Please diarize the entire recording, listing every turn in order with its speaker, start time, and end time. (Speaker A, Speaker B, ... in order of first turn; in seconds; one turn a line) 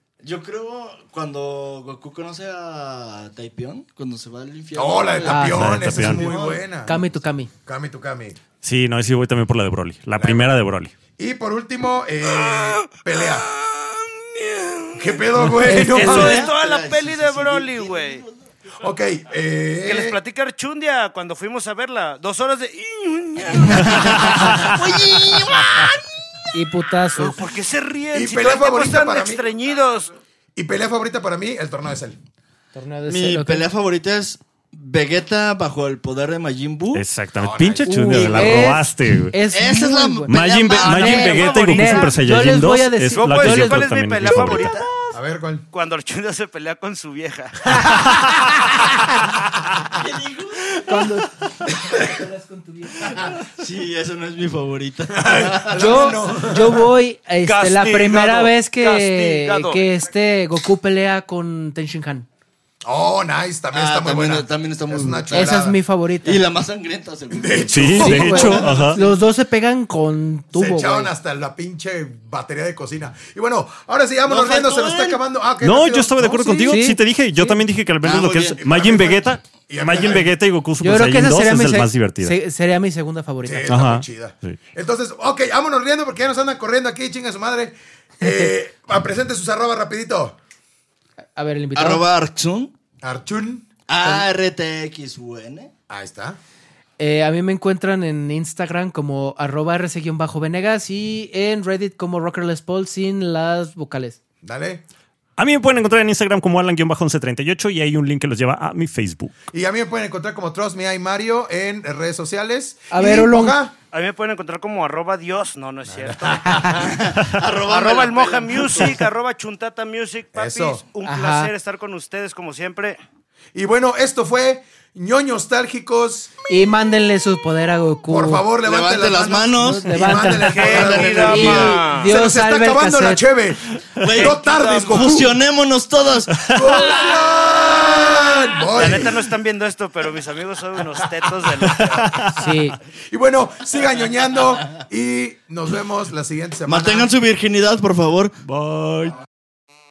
Speaker A: 0.2-6.6
Speaker B: 4.7-7.1
Speaker C: 5.2-7.5
Speaker D: 5.5-6.2
Speaker B: 7.6-8.4
Speaker D: 8.6-10.9
Speaker B: 10.2-10.5
Speaker B: 11.2-13.5
Speaker E: 12.7-14.9
Speaker B: 14.9-16.5
Speaker A: 15.1-18.4
Speaker C: 15.6-16.4
Speaker E: 15.8-18.2
Speaker B: 18.8-20.2
Speaker E: 19.8-25.9
Speaker A: 23.6-26.6
Speaker D: 24.0-24.7
Speaker C: 26.5-27.5
Speaker E: 27.2-30.1
Speaker B: 28.1-29.4
Speaker B: 30.5-32.2
Speaker C: 32.7-33.6
Speaker A: 33.1-37.0
Speaker D: 36.9-39.3
Speaker B: 37.4-38.7
Speaker C: 37.8-44.8
Speaker A: 39.5-42.0
Speaker D: 40.3-44.8
Speaker E: 41.3-42.0
Speaker E: 43.1-45.2
Speaker B: 45.1-45.6
Speaker E: 45.7-48.9
Speaker C: 47.9-49.2
Speaker A: 49.9-51.2
Speaker C: 50.8-53.4
Speaker A: 53.1-56.2
Speaker B: 55.1-56.9
Speaker C: 55.7-62.3
Speaker E: 57.4-59.9
Speaker B: 62.8-65.8
Speaker A: 63.7-65.7
Speaker C: 65.3-66.4
Speaker A: 66.2-68.6
Speaker B: 67.3-69.2
Speaker D: 67.7-69.0
Speaker C: 67.9-71.1
Speaker B: 70.5-76.8
Speaker A: 74.2-75.2
Speaker D: 75.6-82.3
Speaker C: 76.7-77.6
Speaker A: 78.0-78.6
Speaker B: 78.6-80.3
Speaker C: 80.8-83.8
Speaker B: 83.4-90.3
Speaker D: 83.7-84.6
Speaker C: 91.3-92.0
Speaker A: 91.7-92.7
Speaker B: 93.0-94.3
Speaker A: 93.9-95.7
Speaker B: 95.9-96.4
Speaker C: 97.0-104.2
Speaker B: 104.4-104.8
Speaker D: 105.4-109.3
Speaker B: 109.5-113.7
Speaker C: 112.9-113.5
Speaker E: 113.9-116.8
Speaker B: 115.8-117.1
Speaker A: 116.7-119.0
Speaker E: 117.6-123.0
Speaker B: 120.3-120.8
Speaker C: 121.0-121.5
Speaker B: 123.5-126.3
Speaker C: 126.5-128.4
Speaker B: 128.1-135.4
Speaker A: 128.6-132.0
Speaker C: 129.6-133.2
Speaker E: 130.4-132.1
Speaker A: 134.0-136.9
Speaker E: 134.2-135.2
Speaker D: 136.4-136.8
Speaker B: 136.5-139.3
Speaker E: 138.7-142.0
Speaker B: 141.2-142.5
Speaker D: 141.7-142.4
Speaker C: 142.3-142.8
Speaker B: 143.1-147.1
Speaker A: 146.6-148.4
Speaker D: 148.4-149.2